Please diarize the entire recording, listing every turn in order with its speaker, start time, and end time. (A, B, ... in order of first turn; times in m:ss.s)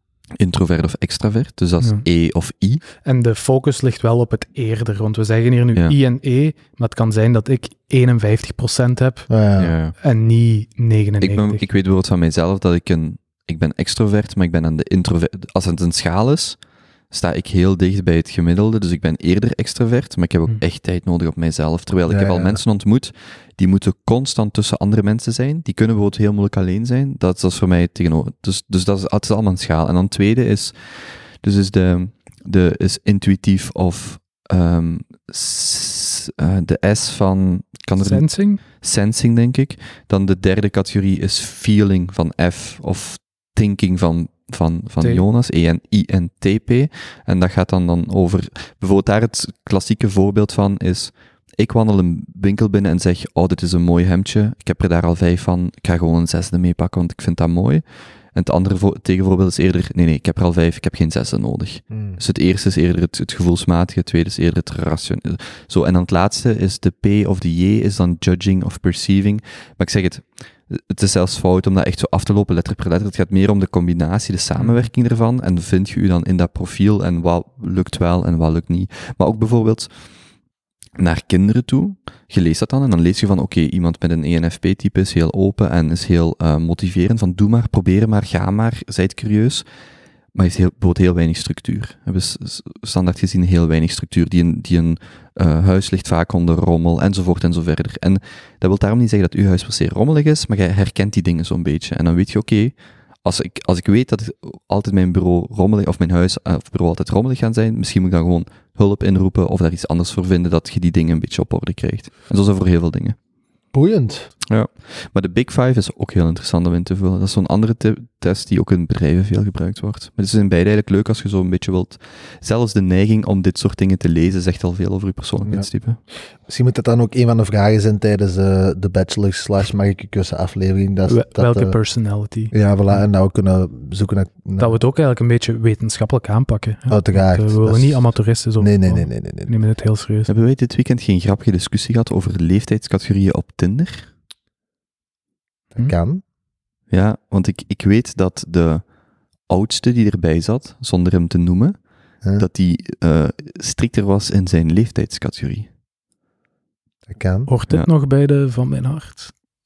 0:00.4-0:02.8 A
0:03.0-0:09.3 B
0:09.3-0:09.7 C
0:09.6-0:09.9 A
0:10.0-0:11.6 B
0:11.2-0:16.6 A
0:17.1-1:19.9 A
0:22.1-0:22.6 C
0:38.0-0:38.6 B
1:01.9-1:02.2 C
1:14.6-1:14.9 B
1:21.0-1:29.6 A
1:30.3-1:53.2 A
1:53.7-1:54.3 C
1:54.5-2:06.0 A
2:06.4-2:11.7 C
2:11.1-2:13.0 B
2:12.5-2:14.8 C
2:14.6-2:20.3 B
2:16.9-2:18.1 C
2:18.6-2:19.5 C
2:20.3-2:24.1 A
2:25.8-2:26.2 C
2:26.9-2:28.9 A
2:29.4-2:31.8 A
2:32.3-2:35.7 A
2:37.1-2:37.5 C
2:37.5-2:39.3 B